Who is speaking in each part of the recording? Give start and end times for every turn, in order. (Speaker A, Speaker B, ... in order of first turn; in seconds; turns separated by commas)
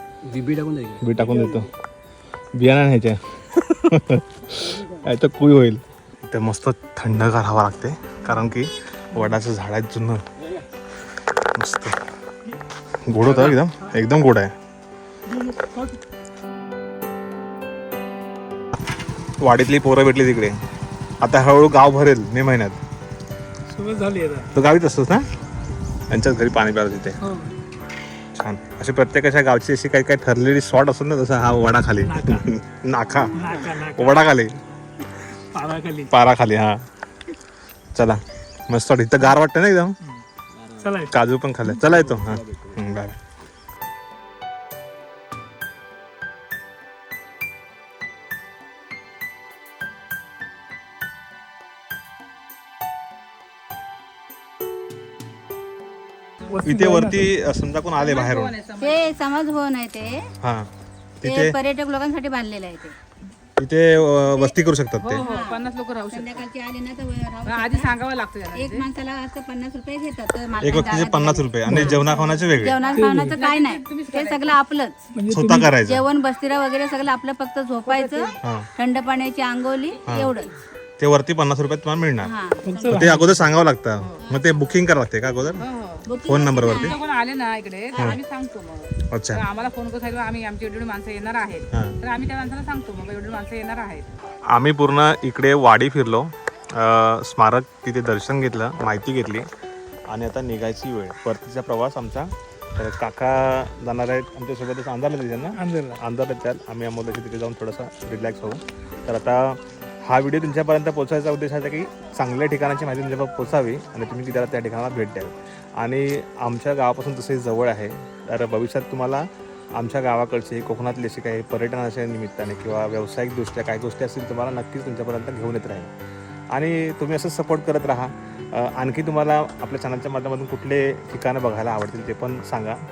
Speaker A: 0.2-1.7, Speaker B: 1.0-1.7, Speaker B: 2.5-10.2, Speaker A: 4.5-5.1, Speaker A: 10.4-10.7, Speaker B: 11.4-12.0, Speaker B: 13.0-14.5, Speaker A: 15.3-15.9, Speaker B: 19.4-20.6, Speaker B: 21.2-22.8, Speaker C: 23.7-24.5, Speaker B: 24.5-25.3, Speaker B: 26.1-27.2, Speaker C: 27.2-27.5, Speaker B: 28.3-34.5, Speaker C: 32.0-32.5, Speaker A: 33.1-33.5, Speaker C: 33.3-34.3, Speaker C: 35.3-36.1, Speaker B: 36.1-36.8, Speaker B: 37.9-40.0, Speaker A: 40.5-41.0, Speaker C: 40.8-42.0, Speaker B: 41.1-43.2, Speaker A: 41.9-42.8, Speaker C: 56.5-57.3, Speaker B: 56.6-58.5, Speaker D: 58.0-59.1, Speaker E: 58.8-60.3, Speaker B: 60.4-60.7, Speaker B: 61.2-61.5, Speaker E: 61.2-63.0, Speaker B: 63.6-65.2, Speaker D: 65.0-66.4, Speaker E: 65.1-67.9, Speaker D: 67.5-68.9, Speaker E: 68.5-72.0, Speaker B: 70.6-72.8, Speaker C: 71.7-72.0, Speaker D: 71.9-74.6, Speaker E: 72.5-75.0, Speaker C: 72.9-73.4, Speaker C: 75.1-75.7, Speaker B: 75.3-76.0, Speaker E: 75.8-80.5, Speaker D: 77.9-78.4, Speaker B: 78.4-78.7, Speaker B: 80.1-80.3, Speaker B: 81.0-82.3, Speaker E: 82.2-83.1, Speaker C: 82.7-83.5, Speaker B: 82.9-85.6, Speaker D: 84.0-84.3, Speaker D: 85.6-94.1, Speaker E: 86.0-87.0, Speaker B: 86.2-87.0, Speaker B: 89.1-89.4, Speaker B: 91.7-92.0, Speaker B: 94.5-99.5, Speaker B: 100.1-125.9, Speaker C: 105.5-105.9, Speaker B: 126.5-132.8